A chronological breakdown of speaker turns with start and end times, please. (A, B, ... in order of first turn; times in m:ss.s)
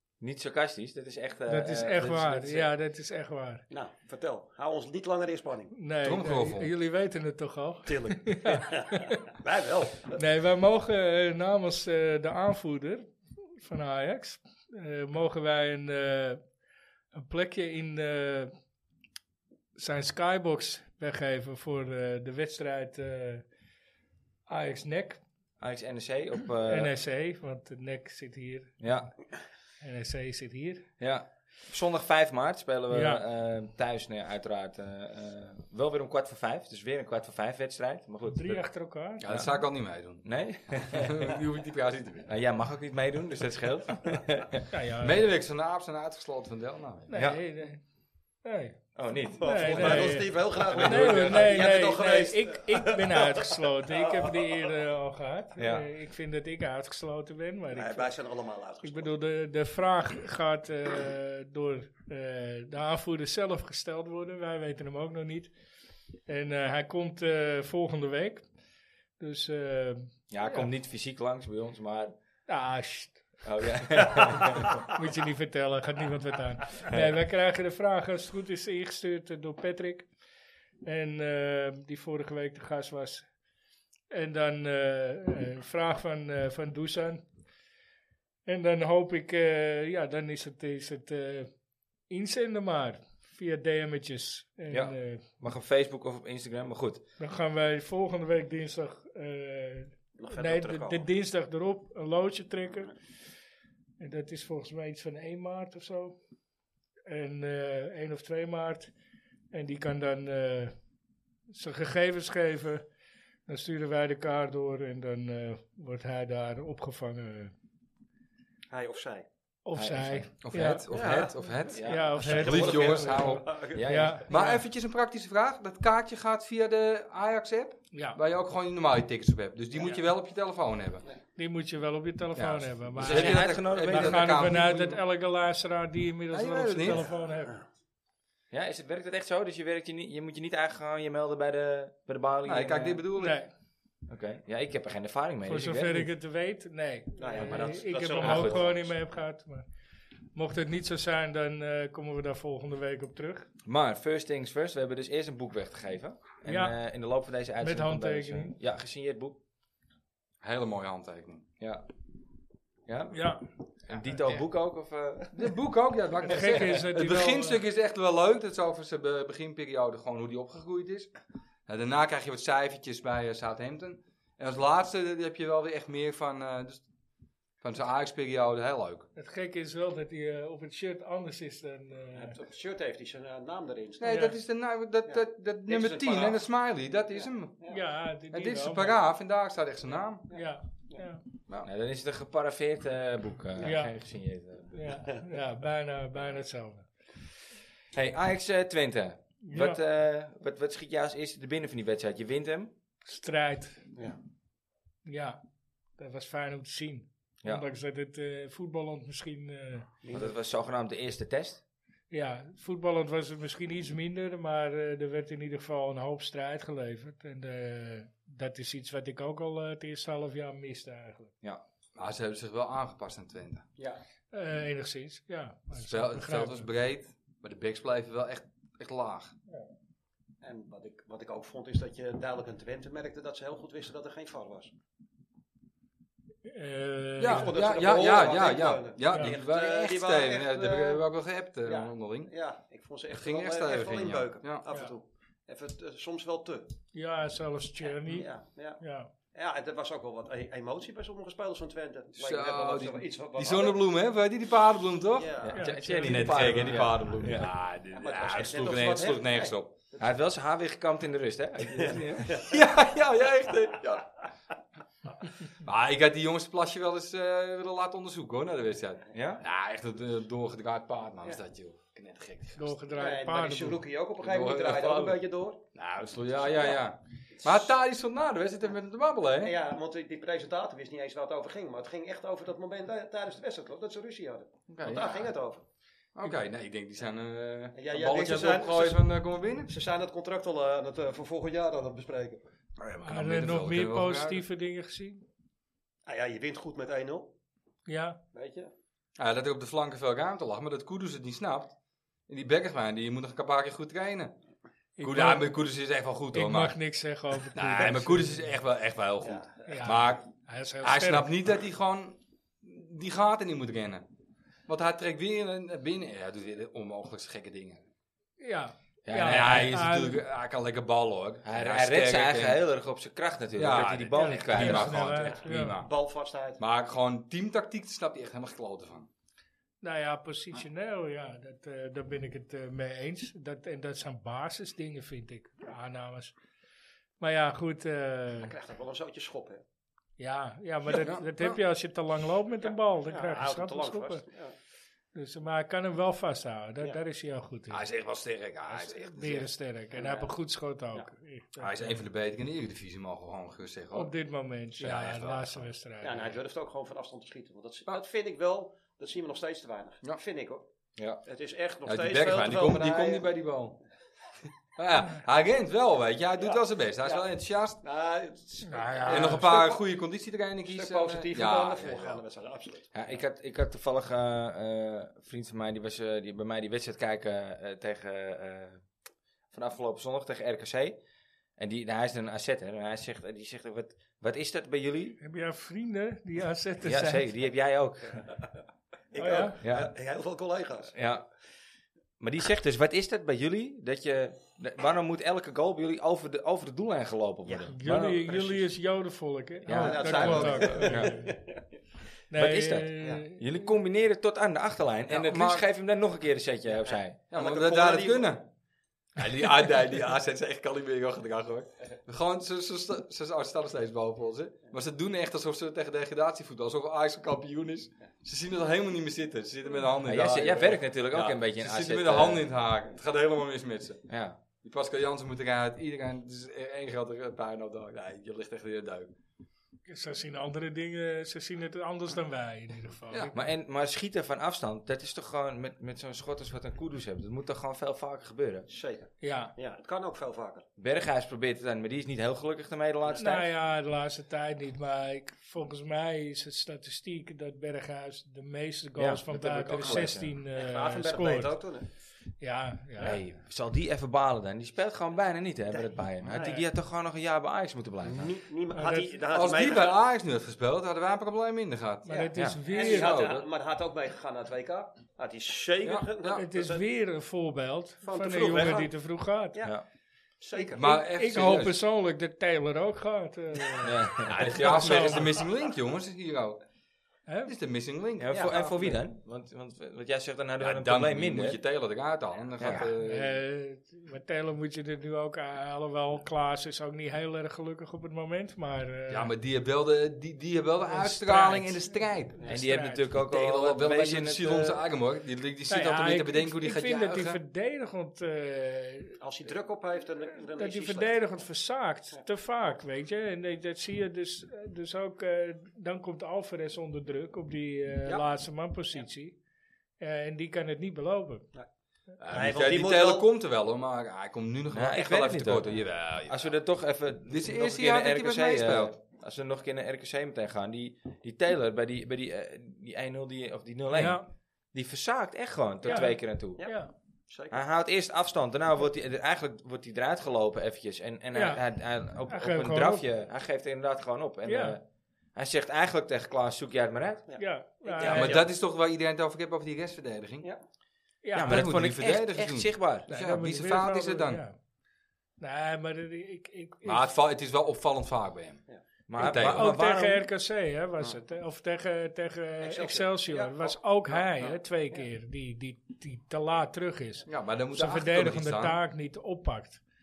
0:00.2-0:02.7 A
0:01.5-0:03.6 B
0:03.7-0:05.7 C
0:05.7-0:09.2 B
0:06.0-0:06.7 D
0:07.8-0:10.2 C
0:10.1-0:16.4 B
0:17.1-0:18.5 B
0:19.8-0:23.4 B
0:24.5-0:25.2 B
0:25.6-0:26.9 A
0:26.6-0:28.8 B
0:28.8-0:29.1 A
0:29.8-0:30.8 B
0:31.0-0:38.6 A
0:32.9-0:33.2 B
0:38.3-0:39.2 B
0:39.2-0:40.2 D
0:39.2-0:39.5 A
0:40.2-0:41.4 A
0:40.8-0:42.3 D
0:42.3-0:44.6 A
0:44.7-0:45.3 B
0:45.0-0:47.1 D
0:47.1-0:47.8 B
0:47.1-0:47.4 A
0:48.4-0:48.8 B
0:49.0-0:50.2 A
0:49.4-0:54.7 C
0:49.4-0:58.1 B
0:50.6-0:51.7 D
0:55.6-0:55.9 A
0:57.7-0:59.1 C
0:58.8-1:05.5 B
1:06.3-1:08.4 B
1:09.2-1:10.7 B
1:10.3-1:12.2 A
1:12.5-1:13.2 B
1:13.4-1:14.8 A
1:14.0-1:20.1 B
1:16.9-1:17.1 A
1:20.8-1:23.2 B
1:24.1-1:27.2 B
1:28.4-1:31.5 B
1:32.1-1:35.2 B
1:34.7-1:37.0 A
1:37.2-1:42.9 B
1:40.2-1:41.0 C
1:44.0-1:46.2 B
1:47.0-1:48.9 B
1:49.5-1:50.7 B
1:51.5-1:52.8 B
1:53.5-1:57.5 B
1:58.7-1:59.2 C
1:59.6-2:00.8 B
1:59.7-2:00.3 A
2:00.4-2:03.6 D
2:00.9-2:04.1 C
2:01.7-2:02.4 A
2:01.8-2:04.6 B
2:03.7-2:04.4 A
2:04.3-2:11.0 D
2:07.9-2:08.2 B
2:09.7-2:10.0 C
2:11.4-2:17.5 B
2:12.4-2:15.0 D
2:13.0-2:14.5 A
2:16.3-2:17.0 D
2:16.9-2:17.6 C
2:18.5-2:23.0 A
2:22.4-2:23.4 D
2:23.2-2:23.5 B
2:24.1-2:26.1 A
2:25.4-2:29.6 B
2:27.2-2:28.9 C
2:28.2-2:28.7 A
2:30.3-2:33.5 B
2:33.6-2:39.4 A
2:36.4-2:36.8 B
2:37.6-2:38.5 B
2:40.4-2:41.4 D
2:41.6-2:41.8 A
2:42.9-2:43.2 A
2:43.1-2:43.5 B
2:43.9-2:45.5 A
2:43.9-2:44.4 D
2:45.3-2:51.1 D
2:46.2-2:47.6 B
2:51.7-2:56.8 D
2:57.6-2:59.1 D
2:59.2-3:02.4 B
3:02.2-3:04.2 C
3:04.0-3:07.6 D
3:04.1-3:04.4 B
3:05.1-3:06.5 C
3:07.1-3:07.8 C
3:07.6-3:09.0 B
3:08.3-3:10.2 D
3:10.3-3:11.0 C
3:10.3-3:11.2 B
3:11.6-3:14.8 A
3:13.6-3:13.9 B
3:14.7-3:16.9 B
3:17.9-3:22.7 A
3:19.4-3:19.8 B
3:23.0-3:23.8 B
3:25.0-3:25.4 B
3:26.0-3:29.9 B
3:30.0-3:30.3 C
3:30.1-3:31.6 A
3:32.1-3:41.3 B
3:42.0-3:43.6 D
3:44.3-3:46.7 B
3:45.7-3:49.3 D
3:50.4-3:54.7 C
3:56.4-3:57.5 B
3:57.2-4:02.3 D
3:57.2-4:01.0 C
3:59.1-3:59.4 B
4:01.6-4:06.7 C
4:03.1-4:04.6 D
4:06.9-4:08.3 B
4:07.8-4:08.8 C
4:08.8-4:09.1 B
4:09.3-4:13.8 C
4:12.2-4:15.3 D
4:15.1-4:15.6 C
4:15.4-4:17.5 A
4:15.5-4:16.4 B
4:16.0-4:19.7 D
4:17.9-4:20.1 C
4:20.0-4:22.4 A
4:21.7-4:22.5 C
4:22.4-4:24.1 D
4:25.6-4:32.7 D
4:29.1-4:29.4 A
4:32.6-4:33.8 B
4:32.9-4:35.6 C
4:34.2-4:35.2 D
4:35.7-4:39.5 D
4:37.4-4:37.7 C
4:39.4-4:45.6 C
4:44.7-4:45.3 D
4:46.2-4:49.7 D
4:47.7-4:49.1 C
4:49.7-4:52.4 C
4:52.8-4:54.4 D
4:53.0-4:55.2 B
4:56.0-4:57.3 C
4:57.9-4:58.2 B
4:58.3-4:58.7 C
4:59.2-5:01.7 D
5:02.3-5:04.3 D
5:05.0-5:05.5 B
5:05.0-5:06.8 D
5:06.3-5:08.5 B
5:07.5-5:10.3 D
5:09.2-5:09.5 C
5:09.6-5:11.3 B
5:10.8-5:14.0 D
5:14.7-5:17.8 D
5:18.4-5:20.2 B
5:19.0-5:19.8 A
5:19.2-5:22.6 D
5:21.4-5:25.3 A
5:23.6-5:25.9 D
5:24.2-5:25.7 B
5:25.7-5:26.6 C
5:26.6-5:29.1 D
5:29.8-5:36.3 B
5:37.2-5:38.5 B
5:38.4-5:39.6 C
5:40.2-5:44.2 B
5:40.9-5:41.6 D
5:42.6-5:44.5 C
5:45.1-5:47.8 B
5:47.7-5:49.5 D
5:48.7-5:52.0 B
5:49.9-5:50.3 C
5:51.6-5:54.1 D
5:53.9-5:56.4 B
5:54.8-5:55.7 D
5:56.0-6:00.6 C
6:01.2-6:03.3 C
6:01.8-6:03.8 D
6:04.8-6:07.8 D
6:06.4-6:07.3 C
6:07.8-6:09.6 C
6:08.6-6:09.8 B
6:09.1-6:12.2 D
6:10.6-6:12.9 C
6:12.9-6:18.8 A
6:19.5-6:21.0 A
6:21.6-6:25.2 A
6:25.2-6:27.3 B
6:26.8-6:28.2 A
6:28.1-6:28.6 C
6:29.1-6:30.9 C
6:29.2-6:29.6 B
6:29.6-6:29.9 A
6:30.9-6:31.3 A
6:32.2-6:38.6 A
6:37.7-6:41.3 B
6:39.6-6:41.2 A
6:39.7-6:41.6 C
6:42.3-6:43.4 B
6:42.3-6:47.2 A
6:45.1-6:45.6 D
6:46.8-6:48.4 C
6:47.3-6:48.4 D
6:49.2-7:04.0 D
7:00.0-7:02.4 A
7:04.1-7:04.4 A
7:04.6-7:09.1 D
7:09.9-7:13.3 B
7:13.3-7:18.7 A
7:18.7-7:20.6 C
7:19.2-7:19.5 B
7:20.8-7:23.4 A
7:23.2-7:31.5 B
7:29.0-7:30.4 A
7:30.5-7:31.9 C
7:32.4-7:33.2 B
7:33.0-7:38.3 A
7:36.3-7:36.6 B
7:38.0-7:40.0 C
7:38.7-7:39.2 B
7:39.3-7:42.1 D
7:42.0-7:43.2 B
7:42.1-7:46.8 C
7:42.3-7:42.6 A
7:42.7-7:43.4 D
7:45.8-7:46.4 D
7:46.4-7:49.6 B
7:48.0-7:48.9 C
7:49.6-7:49.8 A
7:50.4-7:51.5 C
7:50.6-7:51.8 D
7:50.8-7:55.4 B
7:53.8-7:55.2 A
7:54.3-7:56.6 D
7:57.3-7:57.5 B
7:57.5-7:58.9 D
7:58.2-8:01.6 A
7:58.3-7:58.6 C
8:00.6-8:03.4 D
8:02.6-8:02.9 A
8:03.0-8:09.3 B
8:09.1-8:12.6 D
8:10.9-8:11.8 B
8:12.4-8:14.8 A
8:12.5-8:13.0 B
8:13.1-8:17.4 D
8:15.7-8:19.2 B
8:19.2-8:21.2 C
8:20.6-8:29.4 B
8:30.0-8:31.4 B
8:32.2-8:36.5 D
8:32.3-8:33.3 C
8:34.7-8:46.7 A
8:37.3-8:39.0 D
8:43.9-8:44.2 B
8:45.8-8:46.9 B
8:47.3-8:47.6 C
8:47.5-8:54.8 A
8:51.3-8:51.6 B
8:52.3-8:53.0 B
8:54.4-8:54.8 B
8:55.3-8:57.2 A
8:57.3-8:58.5 C
8:57.4-8:58.4 B
8:58.0-9:00.5 D
9:01.2-9:01.7 B
9:01.3-9:03.1 A
9:01.4-9:04.4 D
9:03.1-9:04.5 B
9:05.4-9:07.1 B
9:06.8-9:08.6 D
9:09.1-9:10.3 A
9:09.2-9:19.8 B
9:09.2-9:09.7 D
9:12.6-9:15.0 C
9:17.3-9:18.8 D